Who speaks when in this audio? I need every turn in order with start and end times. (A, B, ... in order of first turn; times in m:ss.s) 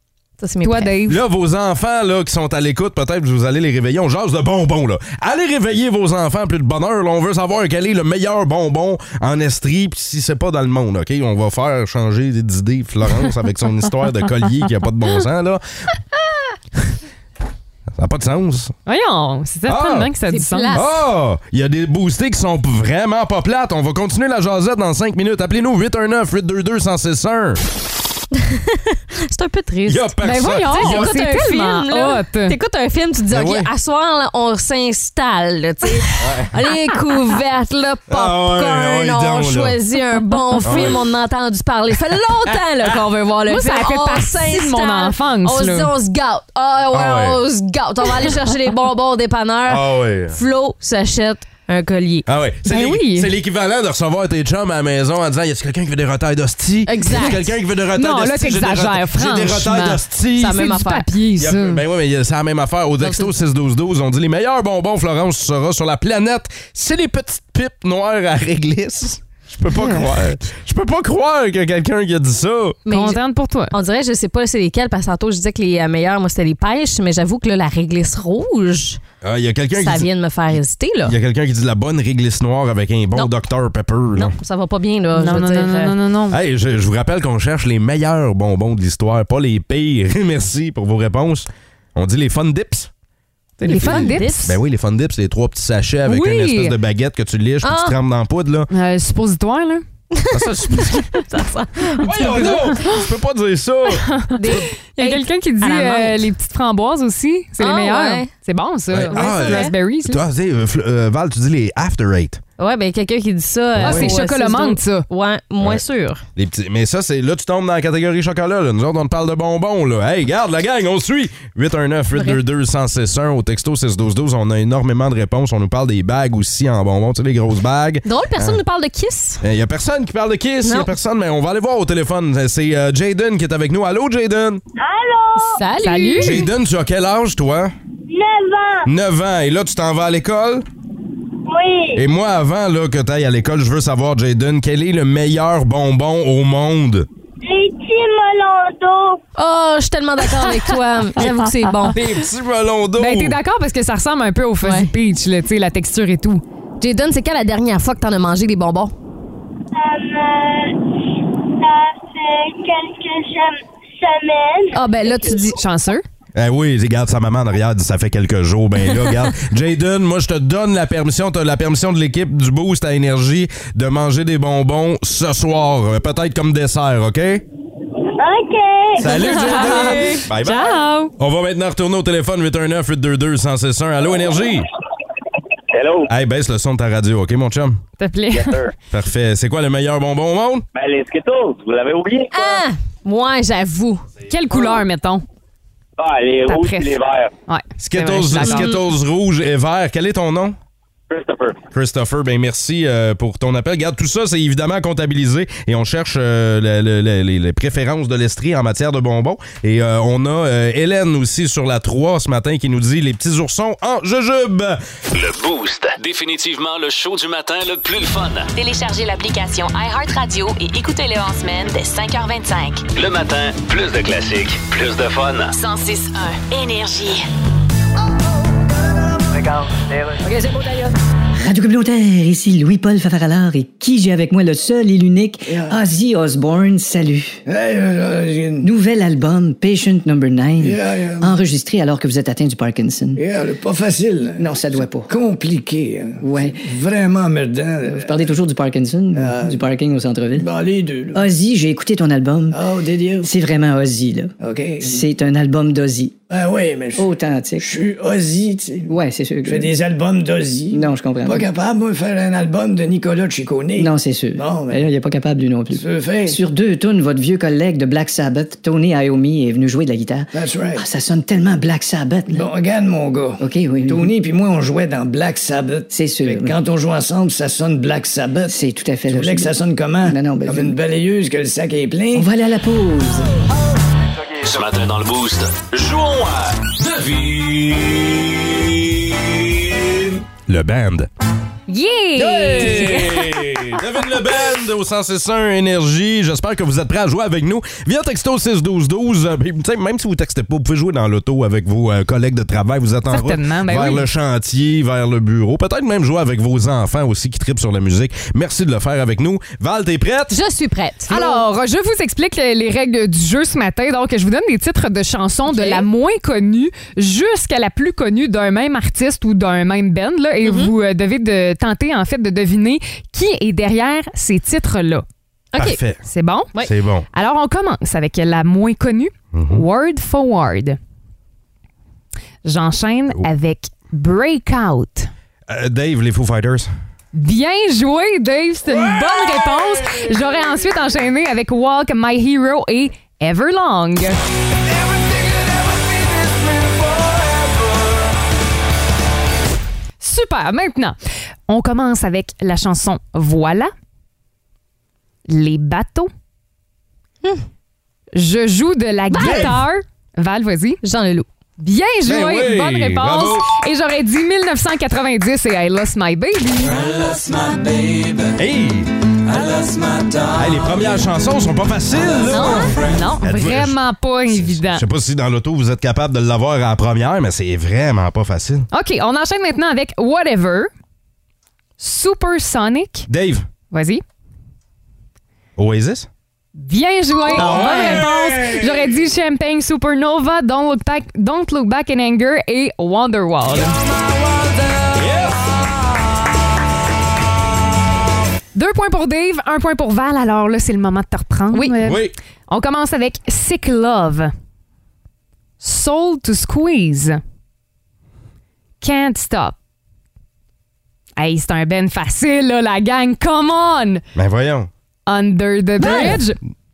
0:00.4-0:00.9 A
0:00.6-0:01.2 B
0:01.1-0:15.6 C
0:17.9-0:18.7 C
0:18.9-0:20.8 B
0:19.7-0:20.1 C
0:20.3-0:21.0 A
0:20.7-0:27.6 C
0:28.3-0:52.3 A
0:29.9-0:31.1 C
0:30.2-0:32.6 B
0:33.3-0:33.7 C
0:36.2-0:36.6 C
0:38.1-0:39.8 C
0:40.6-0:41.0 C
0:43.5-0:45.9 B
0:46.9-0:47.4 C
0:49.7-0:50.4 C
0:52.3-1:00.7 C
0:52.7-0:53.3 B
0:56.9-0:57.5 A
0:58.0-1:01.8 B
1:00.4-1:01.1 A
1:01.4-1:12.8 C
1:03.0-1:03.3 A
1:09.8-1:10.1 B
1:12.9-1:13.2 A
1:12.9-1:13.7 B
1:13.7-1:19.0 A
1:19.2-1:20.1 C
1:19.8-1:21.2 A
1:21.1-1:24.3 C
1:24.2-1:26.0 A
1:25.2-1:26.4 B
1:26.3-1:32.9 C
1:33.6-1:34.5 A
1:33.6-1:38.7 C
1:33.7-1:34.6 B
1:36.1-1:36.8 B
1:37.6-1:38.0 A
1:38.7-1:39.8 B
1:40.1-1:42.8 A
1:40.3-1:41.0 C
1:42.0-1:44.6 C
1:42.2-1:43.0 B
1:44.1-1:44.4 B
1:44.4-1:46.3 A
1:45.0-1:50.2 B
1:47.6-1:48.3 A
1:48.9-1:52.4 C
1:49.1-1:49.7 A
1:52.6-1:56.2 A
1:53.8-1:54.1 C
1:53.8-1:55.1 B
1:56.4-2:08.6 C
2:08.0-2:09.4 A
2:09.4-2:14.6 C
2:10.6-2:10.9 A
2:14.8-2:15.6 D
2:15.4-2:16.4 A
2:15.8-2:16.4 B
2:16.2-2:17.7 C
2:18.1-2:18.9 D
2:18.8-2:20.6 C
2:21.5-2:22.0 D
2:22.0-2:27.1 C
2:27.4-2:29.2 D
2:29.4-2:32.0 A
2:31.9-2:33.4 C
2:33.0-2:36.4 B
2:34.6-2:34.9 A
2:36.8-2:38.9 A
2:39.8-2:40.8 D
2:41.6-2:44.8 D
2:44.8-2:45.6 A
2:44.9-2:46.0 B
2:46.4-2:57.4 C
2:58.2-2:59.1 D
2:59.0-3:04.7 C
2:59.4-3:01.1 B
2:59.4-3:00.2 A
3:05.7-3:06.1 E
3:06.1-3:07.8 C
3:08.0-3:08.6 B
3:08.3-3:08.8 E
3:08.9-3:10.6 C
3:10.8-3:12.6 E
3:12.3-3:14.1 A
3:14.3-3:15.2 B
3:16.0-3:17.3 E
3:16.5-3:17.0 B
3:17.5-3:18.7 B
3:17.8-3:20.6 C
3:18.4-3:18.8 A
3:21.1-3:21.6 E
3:21.7-3:34.8 C
3:35.1-3:38.5 F
3:38.6-3:42.8 G
3:43.0-3:45.6 F
3:45.5-3:47.3 G
3:49.3-3:50.8 H
3:51.4-3:57.4 I
3:55.5-3:55.8 H
3:57.5-3:58.7 H
3:58.6-4:03.2 I
4:00.6-4:01.3 H
4:03.2-4:04.4 H
4:04.4-4:05.1 I
4:05.1-4:08.3 H
4:06.2-4:06.7 I
4:07.9-4:10.5 I
4:09.1-4:09.6 H
4:10.3-4:11.2 H
4:11.2-4:12.6 I
4:12.5-4:13.3 H
4:13.2-4:16.2 I
4:14.4-4:15.1 H
4:16.3-4:17.1 H
4:17.0-4:17.7 I
4:17.6-4:18.9 H
4:18.9-4:19.7 I
4:19.5-4:24.8 H
4:20.7-4:21.5 I
4:23.8-4:32.5 I
4:25.7-4:26.4 H
4:30.3-4:30.8 H
4:32.3-4:38.6 H
4:33.4-4:34.1 I
4:35.9-4:36.6 I
4:38.5-4:40.8 I
4:39.1-4:42.3 H
4:42.1-4:43.3 I
4:44.4-4:50.1 F
4:50.5-4:51.1 C
4:51.7-4:53.6 B
4:52.2-5:10.4 C
5:03.1-5:04.1 B
5:10.3-5:11.4 A
5:11.1-5:25.0 B
5:15.5-5:15.9 A
5:20.4-5:20.7 A
5:25.5-5:25.8 A
5:25.6-5:26.0 C
5:26.1-5:26.5 B
5:26.6-5:27.1 C
5:27.1-5:30.8 B
5:29.3-5:29.6 C
5:32.4-5:35.1 B
5:35.5-5:36.7 C
5:37.1-5:44.2 B
5:46.2-5:46.8 C
5:50.0-5:51.0 B
5:51.5-5:53.7 B
5:55.3-5:56.1 B
5:58.2-6:00.8 B
5:59.1-5:59.6 A
5:59.2-5:59.5 C
6:00.8-6:01.3 A
6:01.6-6:06.8 B
6:02.0-6:03.5 C
6:08.3-6:09.4 C
6:10.3-6:18.7 C
6:12.3-6:14.8 B
6:18.7-6:20.7 B
6:21.8-6:23.1 B
6:23.1-6:23.5 C
6:23.7-6:24.0 B
6:25.6-6:26.1 C
6:26.6-6:33.8 B
6:27.3-6:29.0 C
6:27.4-6:28.0 A
6:34.9-6:35.4 C
6:38.6-6:44.3 B
6:41.8-6:42.2 C
6:45.6-6:47.2 B
6:48.8-6:49.6 B
6:51.2-6:54.0 B
6:54.2-6:54.7 C
6:55.1-6:56.4 B
6:55.8-6:56.2 C
6:55.8-6:56.2 A